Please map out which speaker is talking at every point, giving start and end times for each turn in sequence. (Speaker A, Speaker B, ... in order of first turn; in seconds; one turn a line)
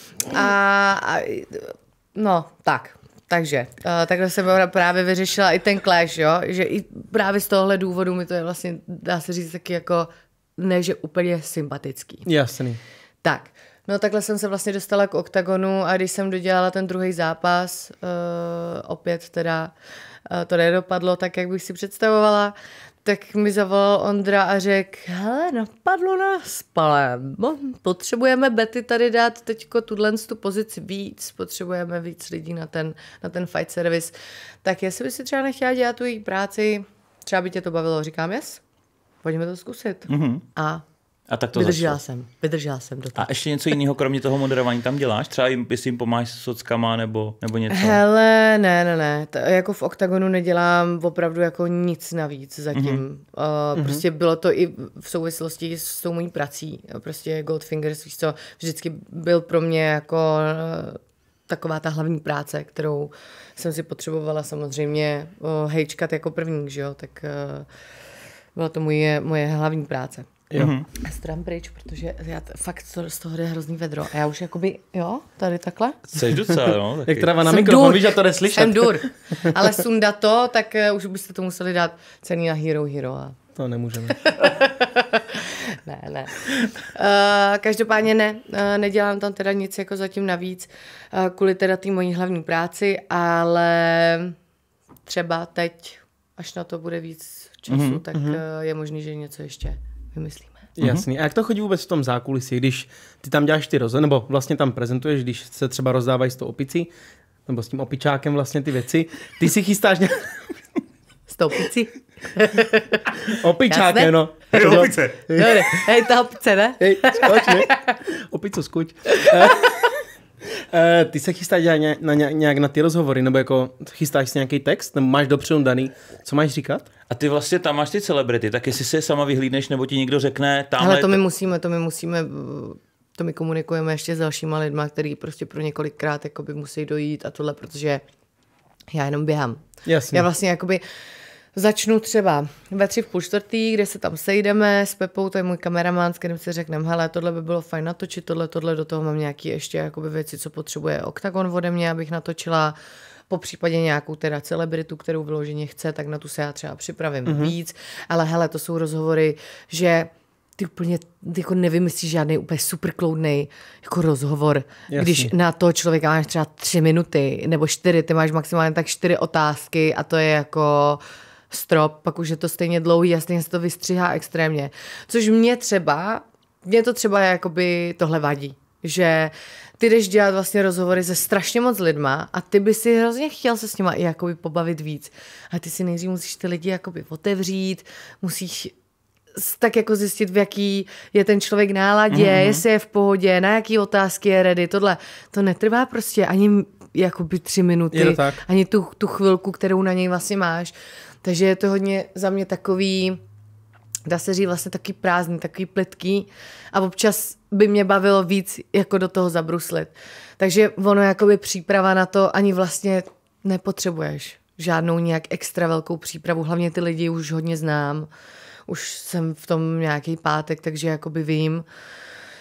Speaker A: 0.3-12.3
Speaker B: 12.2-12.8
Speaker A: 13.2-19.7
Speaker A: 20.3-22.5
Speaker A: 23.1-34.1
Speaker A: 34.6-38.6
Speaker A: 39.2-40.8
Speaker C: 40.1-40.4
Speaker C: 41.3-42.0
Speaker A: 41.5-43.3
Speaker C: 43.2-48.0
Speaker A: 47.7-67.7
Speaker C: 52.7-53.0
Speaker B: 53.8-54.0
Speaker A: 68.5-70.3
Speaker C: 70.6-70.9
Speaker A: 70.9-76.1
Speaker C: 76.1-77.3
Speaker B: 77.0-79.5
Speaker A: 77.5-83.4
Speaker B: 83.6-84.2
Speaker A: 84.2-94.4
Speaker A: 95.1-100.6
Speaker C: 97.7-98.0
Speaker B: 98.1-98.4
Speaker B: 100.8-106.9
Speaker B: 107.5-110.4
Speaker A: 111.3-114.2
Speaker B: 113.4-115.5
Speaker C: 114.5-115.6
Speaker A: 115.3-117.8
Speaker B: 116.8-119.9
Speaker B: 120.7-126.9
Speaker C: 127.1-131.2
Speaker A: 130.8-138.0
Speaker A: 138.9-140.8
Speaker B: 139.9-140.3
Speaker A: 141.6-152.8
Speaker A: 153.3-188.7
Speaker B: 157.3-157.5
Speaker B: 164.9-165.3
Speaker A: 189.3-203.2
Speaker C: 192.1-192.6
Speaker B: 197.9-198.4
Speaker A: 204.1-218.1
Speaker A: 218.7-221.7